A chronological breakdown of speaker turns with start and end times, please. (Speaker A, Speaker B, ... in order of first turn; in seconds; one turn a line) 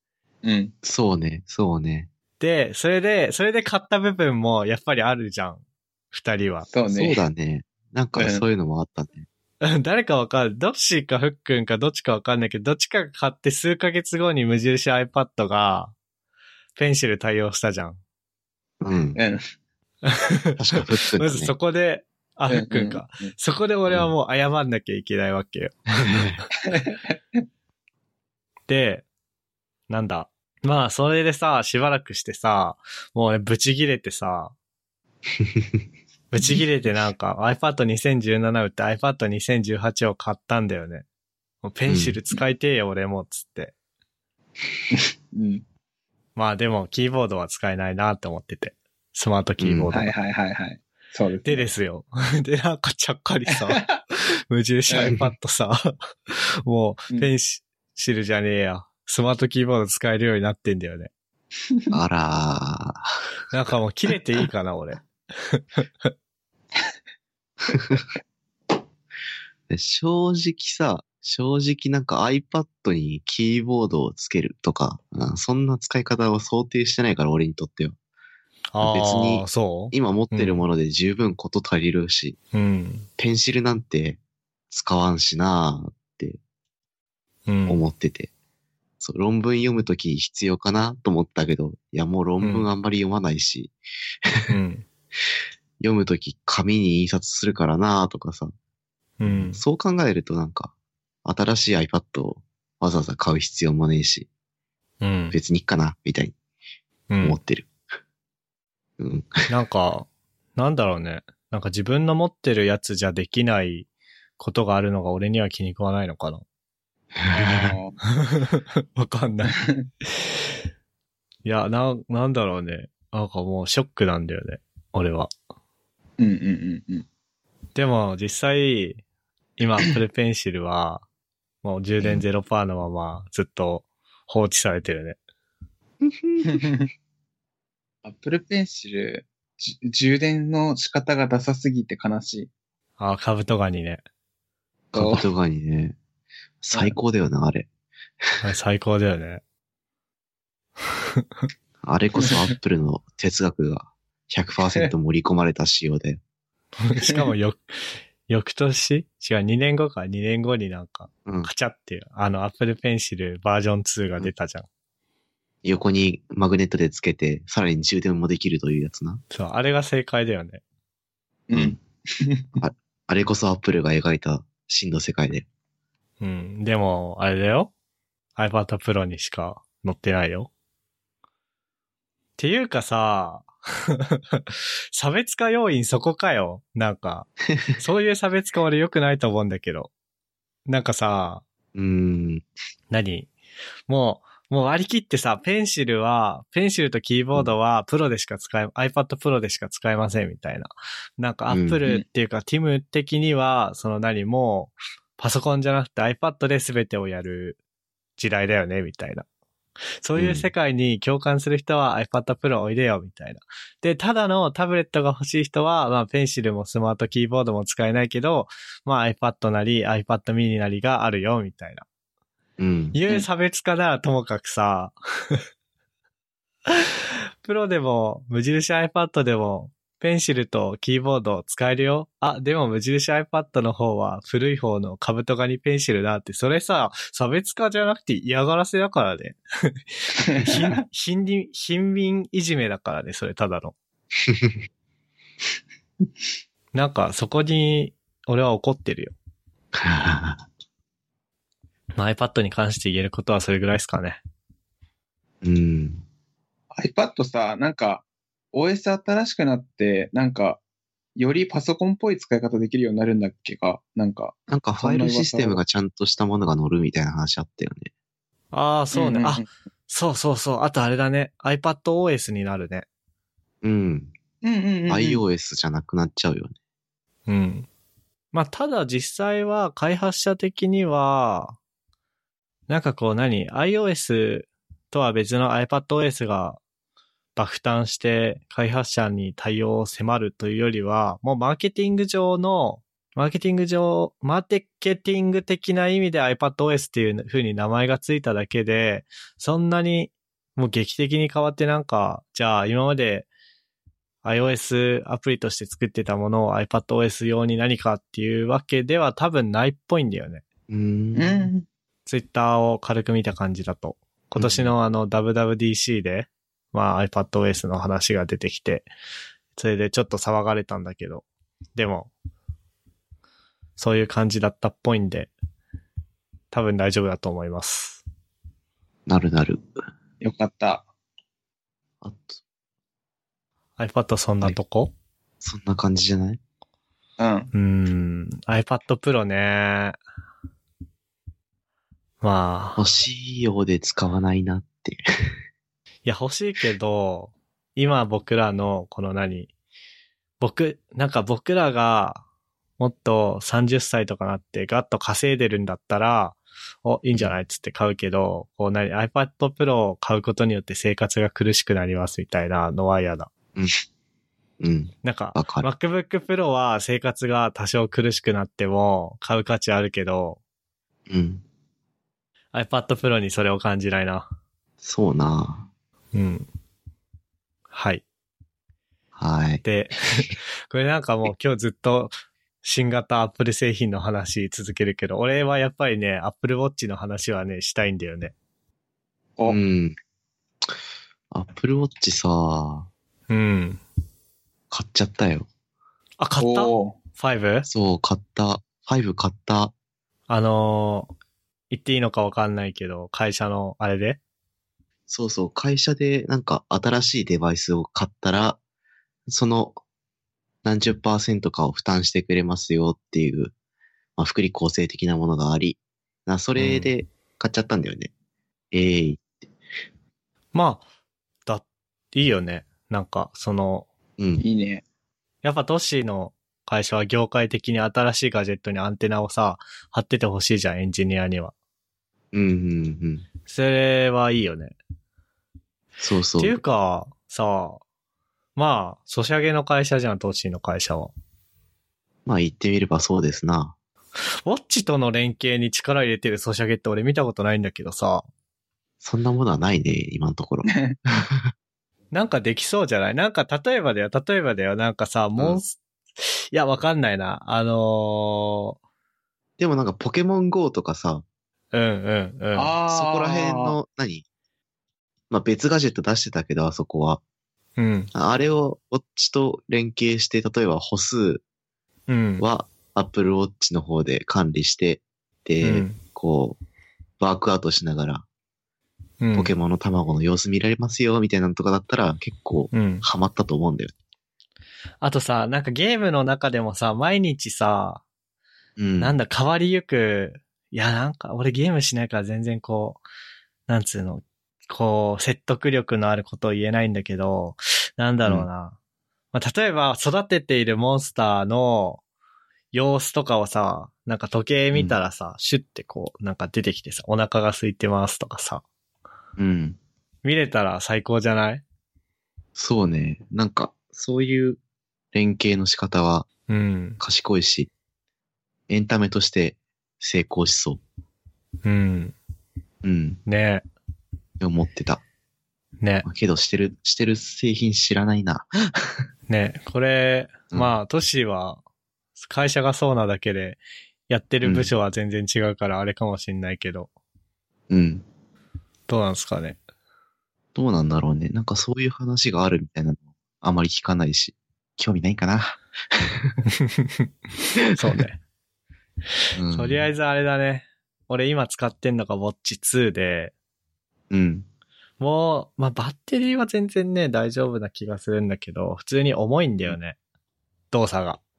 Speaker A: 0.4-0.7
Speaker B: 0.8-2.1
Speaker C: 2.4-6.7
Speaker A: 6.7-7.2
Speaker B: 6.9-9.2
Speaker A: 8.2-8.4
Speaker C: 9.6-15.9
Speaker C: 16.8-18.0
Speaker B: 18.8-19.2
Speaker A: 19.1-19.4
Speaker C: 20.0-26.2
Speaker B: 20.6-21.5
Speaker A: 22.5-23.3
Speaker B: 25.9-26.4
Speaker A: 26.7-27.1
Speaker C: 28.7-29.0
Speaker C: 29.9-34.5
Speaker B: 35.4-35.7
Speaker C: 36.3-41.0
Speaker C: 41.6-43.7
Speaker B: 41.9-42.2
Speaker A: 44.9-45.6
Speaker C: 46.4-50.1
Speaker B: 49.6-49.9
Speaker A: 49.9-51.6
Speaker C: 51.4-61.1
Speaker A: 53.5-53.9
Speaker A: 54.9-55.1
Speaker B: 61.9-63.1
Speaker C: 63.5-66.1
Speaker B: 67.7-68.0
Speaker B: 69.7-77.9
Speaker C: 78.7-80.7
Speaker B: 78.8-82.4
Speaker C: 82.5-83.1
Speaker B: 83.2-84.2
Speaker B: 84.7-86.4
Speaker C: 87.5-87.8
Speaker B: 87.7-88.3
Speaker B: 89.0-94.5
Speaker C: 92.4-92.7
Speaker C: 94.5-94.8
Speaker B: 95.8-98.5
Speaker C: 99.2-99.6
Speaker B: 99.2-100.7
Speaker B: 101.2-104.3
Speaker C: 105.0-105.3
Speaker B: 105.3-106.3
Speaker C: 107.1-107.4
Speaker B: 107.2-107.7
Speaker B: 109.0-109.4
Speaker C: 109.5-113.9
Speaker C: 114.4-116.4
Speaker B: 117.1-117.8
Speaker A: 117.3-118.0
Speaker C: 118.1-119.6
Speaker A: 119.5-119.8
Speaker C: 121.4-125.3
Speaker A: 126.2-127.0
Speaker C: 127.7-129.0
Speaker C: 129.6-131.0
Speaker C: 131.6-135.2
Speaker B: 136.0-136.6
Speaker A: 136.4-136.9
Speaker A: 138.0-142.5
Speaker C: 143.0-144.0
Speaker B: 144.9-145.9
Speaker A: 144.9-145.2
Speaker B: 146.6-147.7
Speaker C: 148.4-149.4
Speaker B: 151.8-156.2
Speaker C: 156.8-157.6
Speaker C: 158.3-164.7
Speaker B: 165.6-169.2
Speaker C: 169.3-170.6
Speaker A: 171.5-172.5
Speaker B: 172.6-175.4
Speaker C: 176.2-177.7
Speaker C: 178.3-180.5
Speaker C: 182.4-189.9
Speaker C: 190.7-191.4
Speaker B: 191.7-192.4
Speaker C: 192.9-193.3
Speaker C: 193.9-207.6
Speaker B: 201.5-201.8
Speaker C: 208.2-209.2
Speaker C: 210.0-221.8
Speaker B: 210.2-210.5
Speaker B: 222.6-223.0
Speaker C: 222.9-225.4
Speaker C: 226.7-243.7
Speaker B: 244.3-244.6
Speaker C: 246.7-249.2
Speaker B: 249.7-250.4
Speaker C: 252.0-254.2
Speaker B: 255.4-256.0
Speaker A: 256.7-260.6
Speaker A: 261.1-265.6
Speaker B: 264.5-267.9
Speaker C: 268.5-272.9
Speaker A: 268.9-269.4
Speaker B: 273.6-274.1
Speaker A: 274.4-275.2
Speaker B: 274.9-276.6
Speaker C: 277.3-277.7
Speaker C: 278.3-281.6
Speaker C: 282.7-286.6
Speaker C: 287.4-303.3
Speaker C: 304.2-310.4
Speaker B: 310.7-311.5
Speaker A: 311.1-311.6
Speaker C: 312.1-318.9
Speaker B: 314.4-314.7
Speaker C: 319.5-321.2
Speaker C: 321.8-322.1
Speaker C: 323.8-325.3
Speaker C: 326.5-328.0
Speaker B: 329.1-329.7
Speaker A: 330.2-330.9
Speaker B: 332.0-332.4
Speaker C: 333.8-334.9
Speaker B: 335.4-336.4
Speaker A: 337.2-337.5
Speaker C: 337.5-340.0
Speaker C: 342.2-342.9
Speaker B: 342.8-345.3
Speaker C: 346.0-349.5
Speaker C: 350.4-352.2
Speaker C: 352.8-363.3
Speaker B: 364.6-365.7
Speaker C: 365.0-370.4
Speaker B: 371.1-371.4
Speaker C: 372.5-374.2
Speaker B: 374.8-375.7
Speaker C: 376.1-376.5
Speaker C: 377.7-378.0
Speaker B: 379.1-379.6
Speaker C: 379.6-388.3
Speaker B: 389.5-389.9
Speaker B: 391.3-392.9
Speaker C: 393.3-393.8
Speaker B: 394.7-395.5
Speaker C: 396.2-397.7
Speaker A: 396.4-397.0
Speaker B: 397.6-399.7
Speaker C: 400.3-401.1
Speaker C: 401.7-404.2
Speaker B: 405.1-408.6
Speaker B: 409.3-409.8
Speaker B: 410.6-413.5
Speaker B: 414.2-418.1
Speaker C: 416.6-416.9
Speaker B: 418.7-419.5
Speaker C: 420.5-420.8
Speaker C: 421.4-423.9
Speaker B: 424.2-424.4
Speaker A: 424.4-424.8
Speaker C: 425.4-431.5
Speaker B: 432.3-433.2
Speaker C: 433.5-434.8
Speaker B: 436.0-436.6
Speaker C: 436.4-437.8
Speaker C: 438.6-441.1
Speaker B: 442.2-443.7
Speaker C: 444.4-448.3
Speaker B: 449.0-451.5
Speaker A: 450.7-450.9
Speaker C: 452.1-458.7
Speaker B: 459.6-461.2
Speaker C: 461.7-462.7
Speaker A: 462.5-463.7
Speaker B: 462.9-464.2
Speaker B: 465.3-467.2
Speaker C: 467.8-468.1
Speaker B: 468.1-471.4
Speaker C: 472.1-472.4
Speaker B: 472.4-476.6
Speaker C: 475.6-476.0
Speaker B: 477.2-478.2
Speaker C: 479.2-479.5
Speaker B: 479.3-483.9
Speaker C: 482.7-483.0
Speaker C: 485.0-488.0
Speaker B: 488.8-489.1
Speaker C: 489.0-493.0
Speaker C: 493.7-498.8
Speaker C: 499.3-502.0
Speaker C: 502.7-508.6
Speaker B: 509.4-509.8
Speaker C: 510.2-511.6
Speaker B: 512.5-514.6
Speaker B: 515.1-516.3
Speaker C: 516.5-517.0
Speaker B: 517.0-517.7
Speaker B: 518.7-520.8
Speaker C: 521.6-522.1
Speaker B: 522.8-523.2
Speaker C: 523.2-523.6
Speaker B: 524.4-525.0
Speaker C: 525.8-526.0
Speaker B: 526.0-529.0
Speaker C: 529.3-531.6
Speaker C: 532.2-536.9
Speaker B: 534.4-534.7
Speaker B: 537.7-538.0
Speaker C: 538.9-539.6
Speaker B: 540.5-546.4
Speaker C: 546.6-547.1
Speaker C: 547.7-548.2
Speaker B: 549.3-549.9
Speaker C: 549.5-553.3
Speaker B: 554.1-554.5
Speaker C: 555.0-560.0
Speaker C: 560.7-561.2